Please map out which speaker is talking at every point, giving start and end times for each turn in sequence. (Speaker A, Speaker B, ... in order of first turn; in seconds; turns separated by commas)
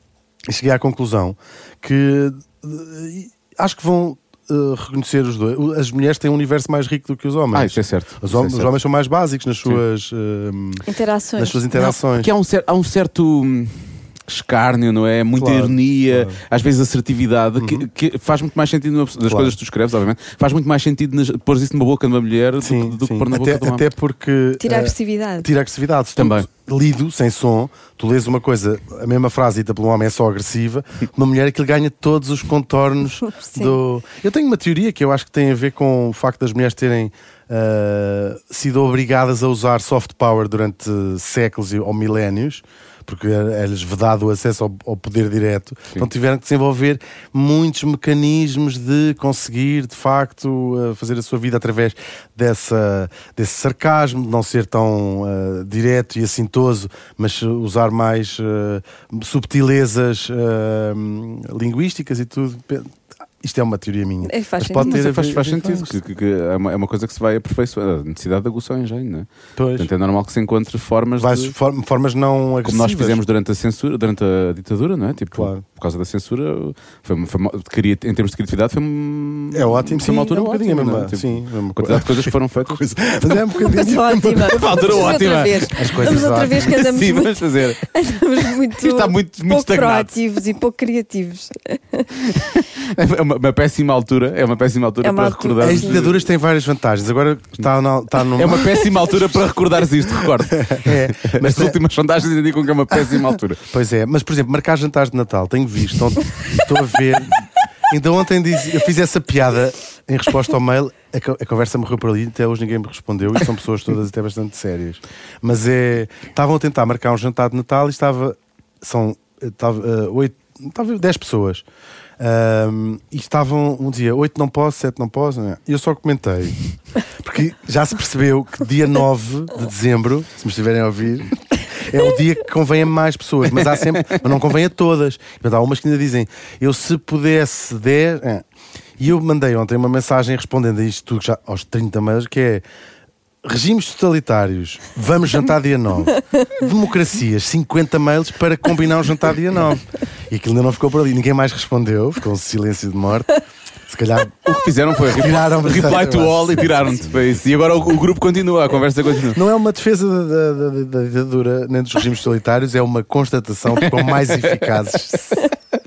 Speaker A: 0.5-10.8, Speaker B: 7.5-8.7, Speaker C: 10.9-11.6, Speaker A: 11.4-12.3, Speaker B: 11.7-23.9, Speaker A: 15.3-16.4, Speaker A: 17.6-17.9, Speaker A: 19.2-19.6, Speaker A: 22.6-66.0, Speaker C: 24.6-25.5, Speaker B: 26.2-26.5, Speaker C: 33.2-33.8, Speaker C: 64.2-65.0, Speaker B: 64.8-71.5, Speaker A: 69.6-69.9, Speaker A: 71.2-73.2, Speaker B: 72.7-83.4, Speaker A: 75.3-75.6, Speaker A: 79.5-86.8, Speaker C: 83.6-92.5, Speaker B: 84.4-87.8, Speaker B: 88.8-90.2, Speaker B: 92.7-96.3, Speaker C: 95.0-96.0, Speaker A: 95.6-99.1, Speaker B: 98.3-103.7, Speaker A: 100.2-101.8, Speaker A: 102.9-121.7, Speaker A: 122.2-138.4, Speaker A: 139.0-142.6, Speaker A: 143.4-154.5, Speaker B: 154.4-159.4, Speaker A: 155.1-157.9, Speaker A: 159.2-165.5, Speaker B: 163.8-165.2